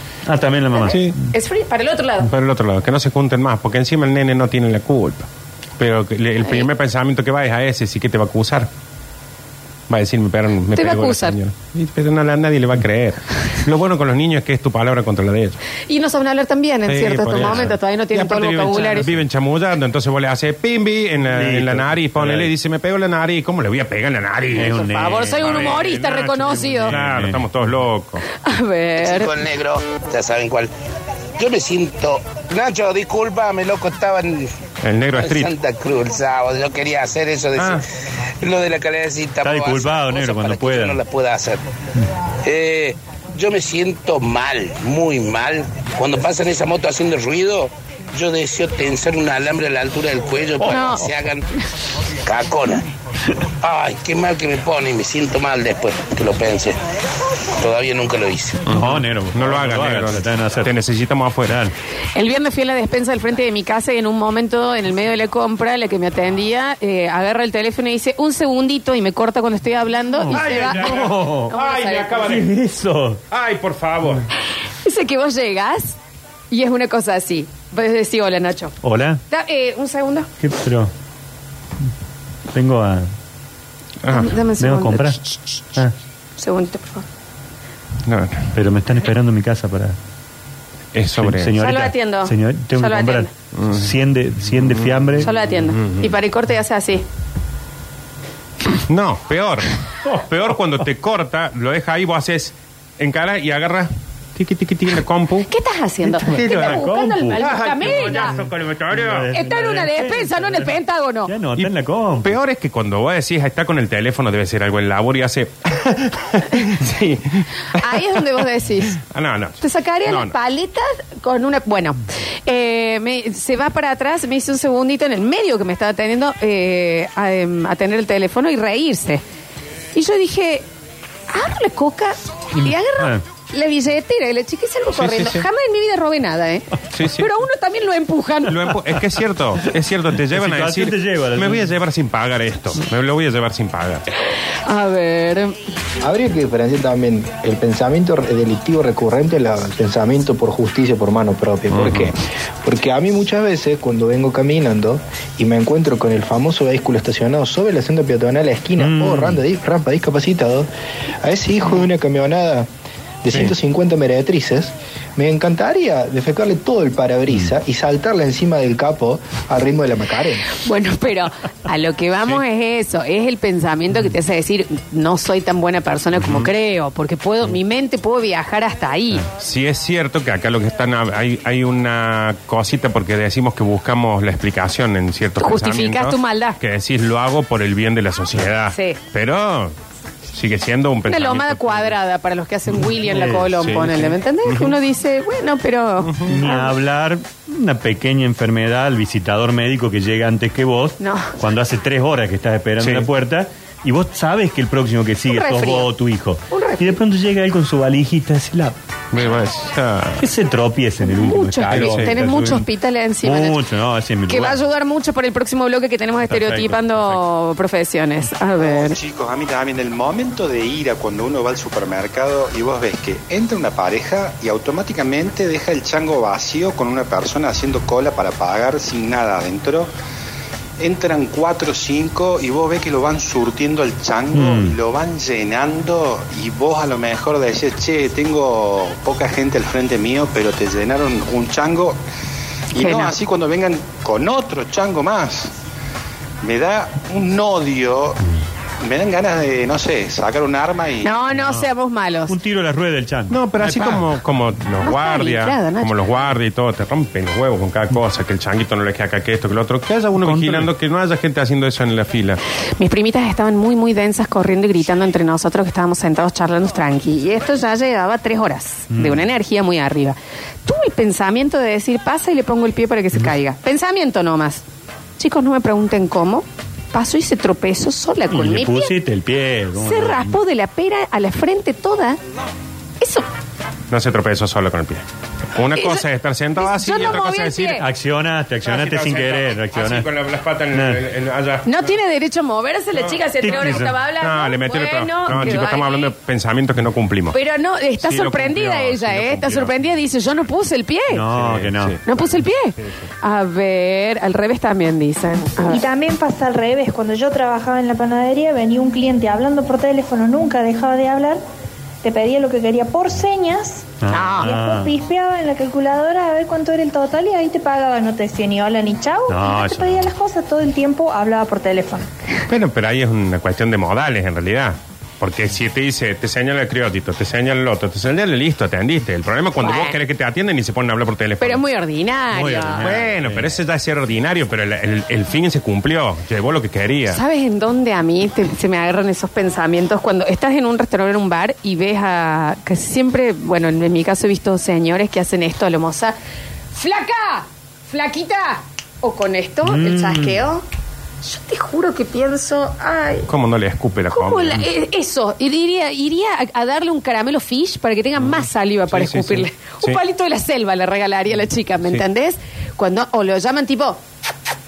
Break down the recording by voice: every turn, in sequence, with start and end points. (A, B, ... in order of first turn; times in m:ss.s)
0:00.2-0:01.1 A
0:00.7-0:02.3 B
0:02.2-0:08.7 C
0:06.4-0:06.7 B
0:09.9-0:15.6 C
0:10.7-0:11.4 B
0:15.9-0:19.1 B
0:16.9-0:24.8 C
0:17.3-0:17.7 A
0:21.3-0:22.5 A
0:24.5-0:25.8 A
0:24.7-0:27.0 B
0:25.3-0:28.2 C
0:26.6-0:27.5 A
0:28.4-0:29.3 B
0:29.0-0:30.7 D
0:31.4-0:34.5 D
0:34.8-0:35.5 C
0:35.1-0:37.8 D
0:37.6-0:37.8 C
0:38.4-0:41.6 D
0:39.4-0:41.0 A
0:42.4-0:51.4 D
0:50.6-0:50.9 A
0:50.6-0:51.1 B
0:52.2-0:52.8 D
0:53.6-0:56.8 D
0:57.6-0:58.6 D
0:58.7-1:00.7 A
0:58.7-1:01.6 C
1:01.4-1:01.7 A
1:02.1-1:12.3 B
1:10.2-1:11.6 A
1:10.3-1:12.5 C
1:12.2-1:13.2 A
1:13.3-1:14.2 C
1:14.8-1:16.0 B
1:16.5-1:18.7 B
1:18.8-1:19.2 A
1:19.3-1:20.3 B
1:20.4-1:20.9 A
1:22.5-1:23.1 A
1:24.0-1:24.3 C
1:24.1-1:25.4 B
1:24.6-1:25.2 A
1:26.4-1:27.0 B
1:28.1-1:28.5 C
1:28.5-1:30.0 A
1:30.9-1:31.5 C
1:31.2-1:35.3 A
1:31.6-1:33.3 B
1:33.5-1:33.9 C
1:34.6-1:35.2 C
1:35.2-1:37.0 B
1:35.8-1:36.0 C
1:38.9-1:45.5 C
1:45.5-1:48.3 B
1:46.2-1:49.3 C
1:46.2-1:50.7 A
1:49.3-1:51.3 B
1:51.2-1:52.4 A
1:52.2-1:58.2 C
1:57.7-1:59.0 B
1:59.0-2:00.3 C
1:59.6-2:09.2 B
2:09.9-2:10.6 B
2:11.3-2:18.5 B
2:12.6-2:13.2 A
2:15.0-2:15.4 C
2:16.9-2:17.3 C
2:18.5-2:24.0 C
2:20.3-2:21.7 A
2:24.6-2:25.6 B
2:26.0-2:40.7 E
2:31.7-2:32.1 C
2:38.8-2:39.4 A
2:41.2-2:42.7 E
2:43.2-2:50.4 E
2:50.5-2:59.2 B
2:59.4-3:09.7 C
3:05.4-3:06.6 B
3:08.7-3:09.0 B
3:10.3-3:11.9 C
3:11.1-3:16.7 B
3:13.1-3:13.6 A
3:13.6-3:14.8 C
3:16.1-3:16.4 C
3:16.2-3:28.8 A
3:21.0-3:21.4 B
3:22.8-3:23.1 C
3:25.2-3:25.9 B
3:26.5-3:27.0 B
3:29.1-3:30.2 C
3:30.2-3:32.7 A
3:31.0-3:33.6 B
3:31.7-3:32.1 C
3:33.2-3:34.6 A
3:34.3-3:39.0 B
3:36.3-3:37.2 A
3:38.6-3:49.9 F
3:50.8-4:02.0 F
3:54.3-3:54.7 A
4:02.7-4:05.5 F
4:02.8-4:03.1 B
4:06.4-4:08.2 F
4:08.8-4:11.2 F
4:11.0-4:12.3 B
4:11.3-4:11.7 A
4:12.3-4:14.0 A
4:13.3-4:22.4 C
4:14.8-4:15.9 B
4:20.2-4:20.7 A
4:22.8-4:34.6 B
4:28.9-4:29.2 A
4:35.2-4:38.9 B
4:38.3-4:40.3 A
4:39.8-4:42.2 B
4:43.0-4:43.3 B
4:43.9-4:45.0 C
4:45.5-4:47.8 C
4:45.7-4:46.0 B
4:46.6-4:47.8 B
4:47.7-4:50.1 A
4:48.6-4:51.9 C
4:50.7-4:51.0 A
4:51.6-4:56.1 B
4:52.9-4:57.4 C
4:53.4-4:54.0 A
4:57.3-5:01.2 B
4:58.0-5:00.3 C
5:01.1-5:02.0 A
5:01.3-5:02.2 C
5:02.0-5:05.8 B
5:05.7-5:11.4 G
5:12.0-5:22.0 G
5:14.0-5:14.9 A
5:14.1-5:14.5 B
5:19.3-5:20.0 A
5:22.5-5:31.6 C
5:29.6-5:30.0 B
5:31.4-5:33.0 B
5:32.3-5:33.5 A
5:32.8-5:37.2 C
5:37.1-5:46.1 B
5:46.7-5:50.6 B
5:49.6-5:50.4 A
5:51.2-5:53.3 B
5:53.3-5:54.6 C
5:54.1-6:04.0 B
5:58.2-6:00.0 C